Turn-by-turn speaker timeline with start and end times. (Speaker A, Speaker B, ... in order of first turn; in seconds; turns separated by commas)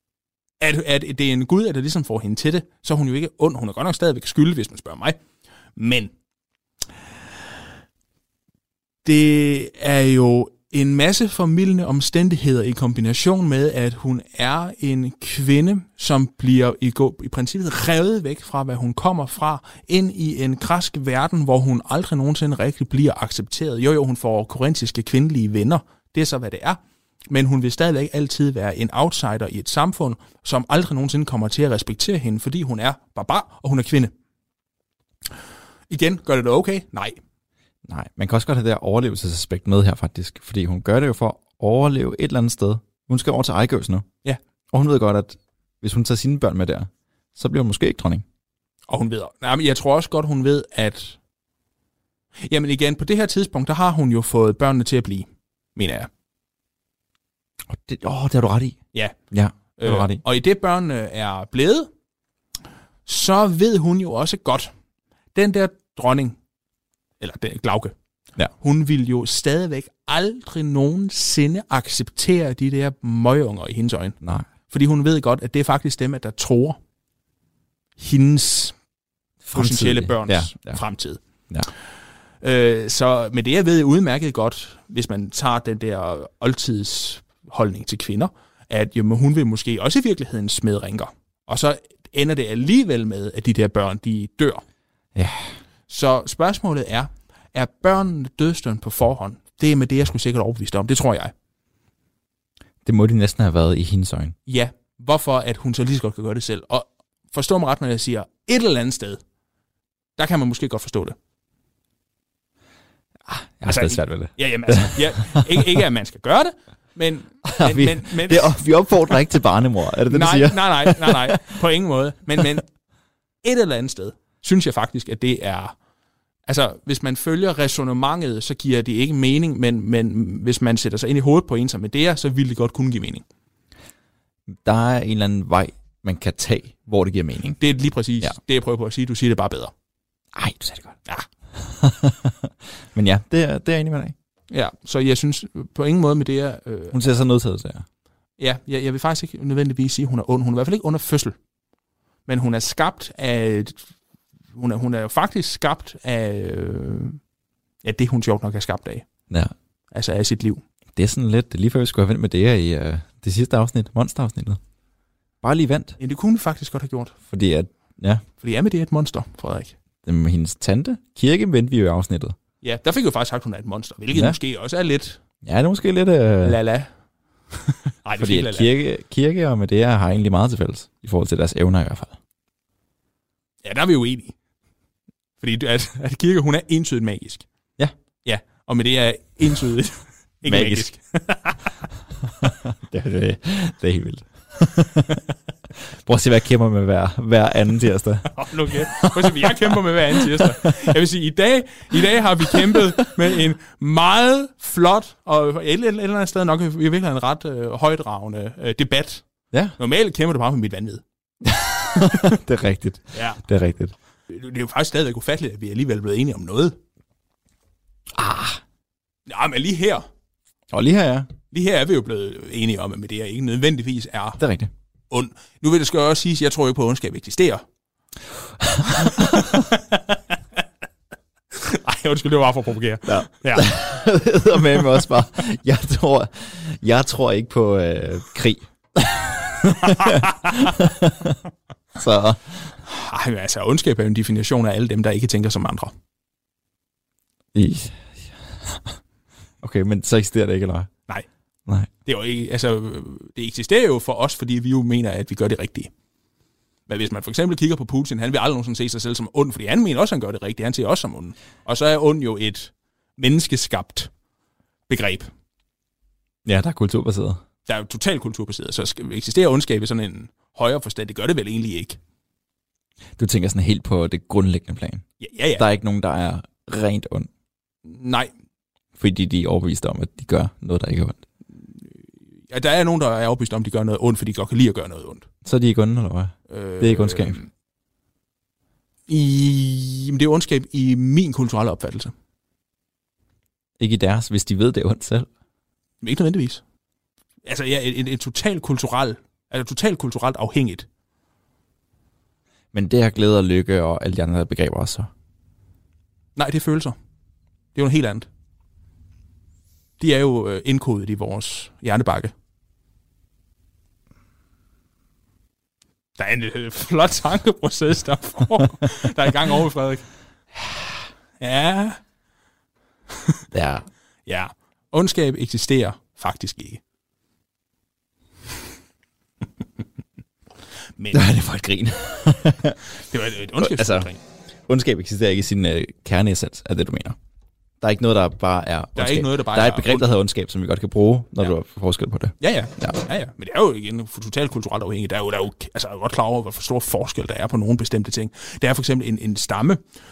Speaker A: 0.6-5.2, Speaker A: 5.8-6.1, Speaker A: 9.0-26.8, Speaker A: 27.3-34.1, Speaker A: 35.9-37.2, Speaker B: 37.9-44.1, Speaker B: 44.7-48.2, Speaker A: 48.9-51.2, Speaker A: 52.5-56.1, Speaker B: 57.7-60.2, Speaker A: 59.8-61.9, Speaker A: 63.1-64.7, Speaker A: 65.3-66.4, Speaker A: 67.2-68.0, Speaker A: 68.5-74.2, Speaker B: 74.2-74.5, Speaker A: 74.7-76.8, Speaker A: 78.0-78.8, Speaker B: 79.4-80.8, Speaker A: 79.5-81.2, Speaker A: 82.4-94.6, Speaker B: 95.2-95.5, Speaker A: 95.9-101.3, Speaker B: 102.8-104.3, Speaker A: 104.5-109.2, Speaker A: 110.2-111.2, Speaker B: 113.3-115.7, Speaker A: 113.7-118.6, Speaker B: 117.5-121.4, Speaker A: 120.1-122.7, Speaker A: 123.4-125.8, Speaker A: 126.5-133.2, Speaker B: 134.5-137.6, Speaker A: 137.6-139.7, Speaker B: 140.3-141.0, Speaker B: 141.6-144.2, Speaker A: 144.5-147.0, Speaker B: 146.9-147.9, Speaker A: 148.4-151.4, Speaker A: 152.3-153.9, Speaker A: 154.5-157.2, Speaker A: 157.8-159.1, Speaker A: 159.9-160.6, Speaker B: 160.9-164.6, Speaker B: 165.4-166.0, Speaker A: 166.0-167.2, Speaker B: 167.3-168.2, Speaker A: 168.4-169.8, Speaker B: 170.0-172.4, Speaker A: 172.6-175.2, Speaker B: 174.1-174.4, Speaker B: 175.4-176.6, Speaker A: 176.4-176.9, Speaker A: 178.0-178.7, Speaker B: 178.2-182.2, Speaker A: 183.6-184.3, Speaker A: 185.4-187.4, Speaker A: 188.2-191.7, Speaker B: 190.5-190.9, Speaker B: 192.4-195.2, Speaker B: 196.0-200.7, Speaker A: 198.3-209.2, Speaker B: 202.6-202.9, Speaker A: 209.8-211.0, Speaker B: 211.4-213.9, Speaker A: 213.1-213.4, Speaker A: 214.3-216.8, Speaker B: 218.1-218.6, Speaker A: 219.3-220.1, Speaker B: 220.7-221.3, Speaker A: 221.5-224.4, Speaker B: 224.4-224.7, Speaker A: 225.1-227.6, Speaker B: 228.6-229.6, Speaker A: 228.9-230.2, Speaker A: 231.5-233.8, Speaker B: 233.1-241.4, Speaker A: 239.8-240.7, Speaker B: 242.0-242.8, Speaker A: 242.9-245.9, Speaker B: 247.6-249.0, Speaker B: 249.6-250.9, Speaker A: 252.1-255.9, Speaker A: 256.9-264.1, Speaker A: 264.9-265.3, Speaker B: 266.4-267.4, Speaker A: 267.7-272.0, Speaker B: 273.2-277.3, Speaker A: 275.2-275.6, Speaker A: 277.9-278.3, Speaker B: 279.0-281.2, Speaker A: 282.5-285.3, Speaker B: 285.4-287.4, Speaker A: 286.5-287.5, Speaker A: 289.1-292.1, Speaker B: 293.8-295.3, Speaker A: 296.0-296.6, Speaker A: 297.4-300.9, Speaker B: 302.7-305.1, Speaker A: 306.4-307.0, Speaker A: 307.8-308.3, Speaker A: 310.0-312.3, Speaker A: 316.2-320.1, Speaker A: 321.4-322.0, Speaker B: 323.5-323.9, Speaker A: 324.3-326.8, Speaker A: 331.0-331.2, Speaker B: 331.1-332.8, Speaker A: 333.1-334.2, Speaker B: 333.6-334.1, Speaker B: 334.7-337.2, Speaker B: 337.8-343.0, Speaker A: 339.0-340.1, Speaker A: 342.4-349.8